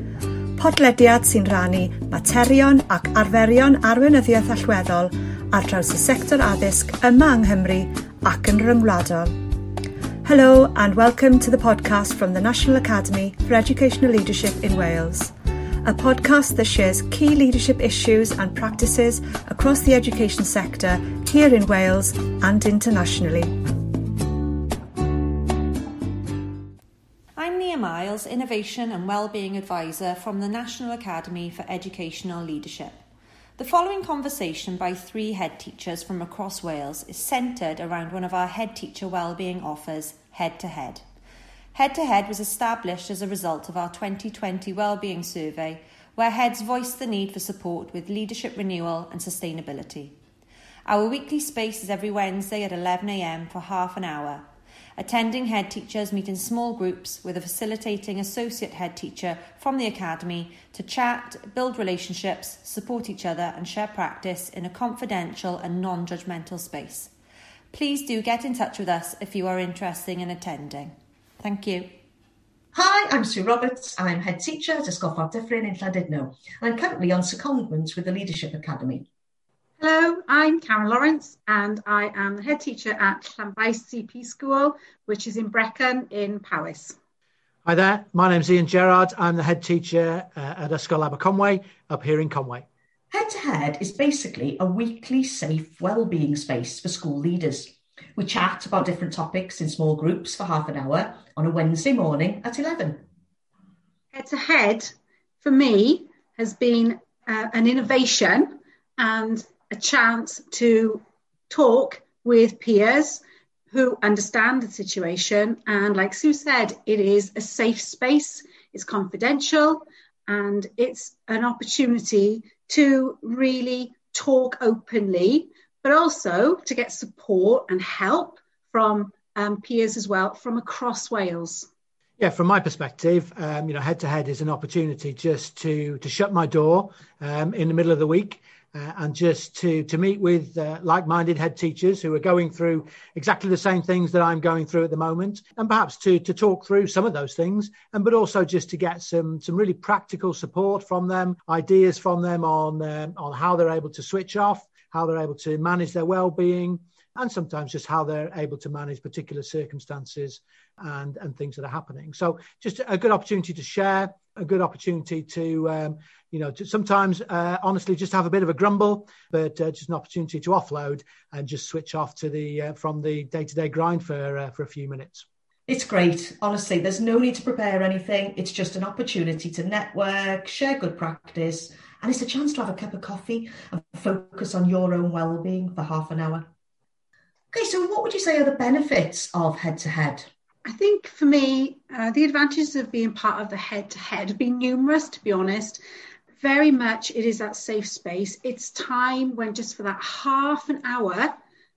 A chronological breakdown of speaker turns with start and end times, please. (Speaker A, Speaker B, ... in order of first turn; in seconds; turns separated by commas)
Speaker A: 0.6-9.3, Speaker A: 10.2-23.5, Speaker B: 27.4-33.0, Speaker B: 33.6-41.0, Speaker B: 41.7-50.1, Speaker B: 50.9-67.1, Speaker B: 67.7-71.9, Speaker C: 72.7-79.1, Speaker D: 79.8-87.0, Speaker E: 87.6-92.7, Speaker C: 93.1-103.0, Speaker D: 104.1-131.7, Speaker E: 132.2-175.2, Speaker C: 175.7-186.5, Speaker C: 187.5-190.3, Speaker D: 190.6-195.8, Speaker D: 196.4-201.3